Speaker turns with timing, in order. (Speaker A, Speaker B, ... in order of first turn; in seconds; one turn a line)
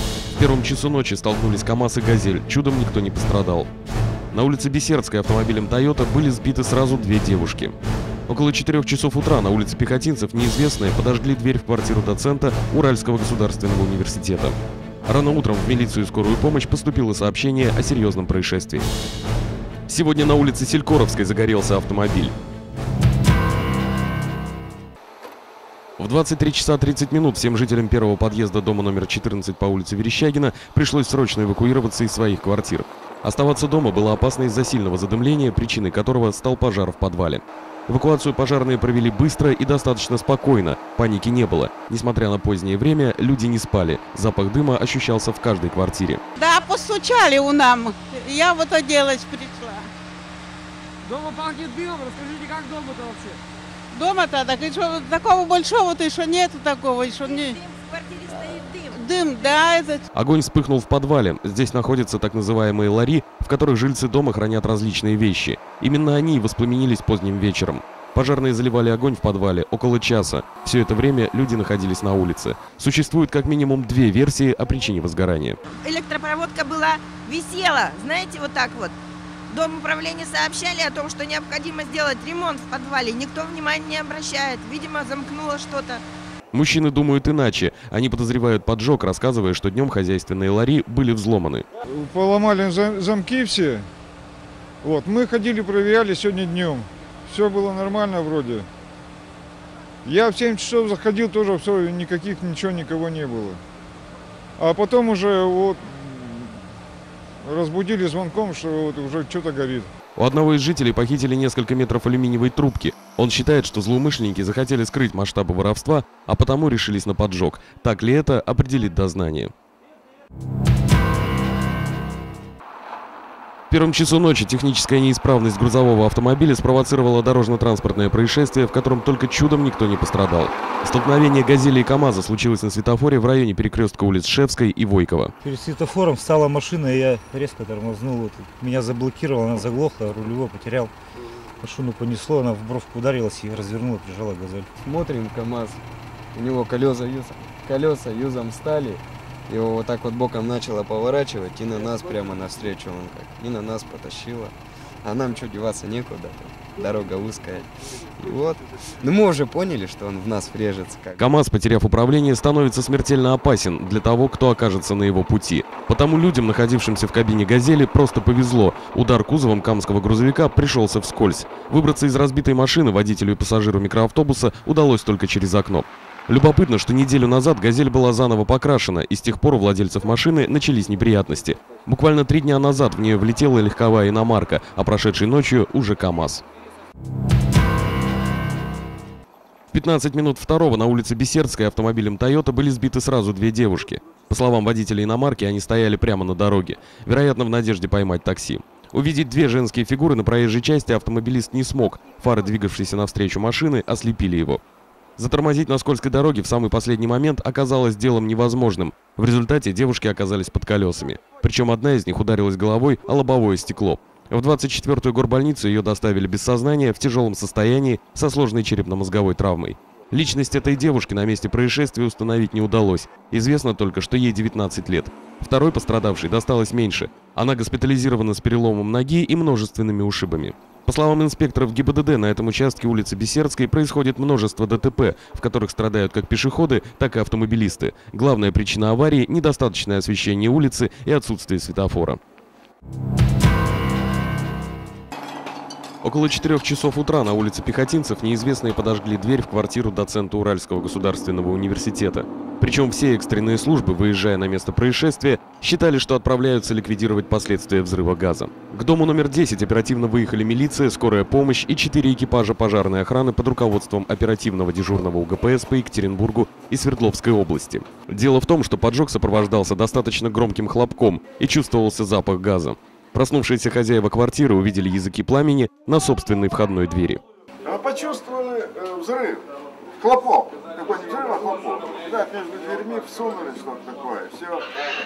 Speaker A: 0.4-3.7
Speaker A: 4.3-7.8
Speaker A: 8.3-14.6
Speaker A: 15.1-18.9
Speaker A: 19.9-22.3
Speaker A: 26.0-46.2
Speaker B: 46.4-49.9
Speaker C: 51.1-53.3
Speaker B: 53.9-57.5
Speaker D: 57.2-59.6
Speaker B: 58.9-60.0
Speaker A: 60.1-75.6
Speaker D: 75.8-79.0
Speaker D: 79.5-86.0
Speaker A: 86.5-91.7
Speaker E: 91.9-93.9
Speaker E: 94.8-98.7
Speaker E: 100.0-103.6
Speaker E: 104.6-106.6
Speaker E: 107.4-109.9
Speaker A: 110.2-119.5
Speaker A: 123.7-135.3
Speaker F: 135.5-140.9
Speaker F: 141.6-144.7
Speaker G: 144.8-145.8
Speaker G: 146.3-161.2
Speaker A: 161.2-186.4
Speaker A: 189.7-204.6
Speaker A: 205.2-242.2
Speaker A: 246.0-277.2
Speaker H: 277.6-284.7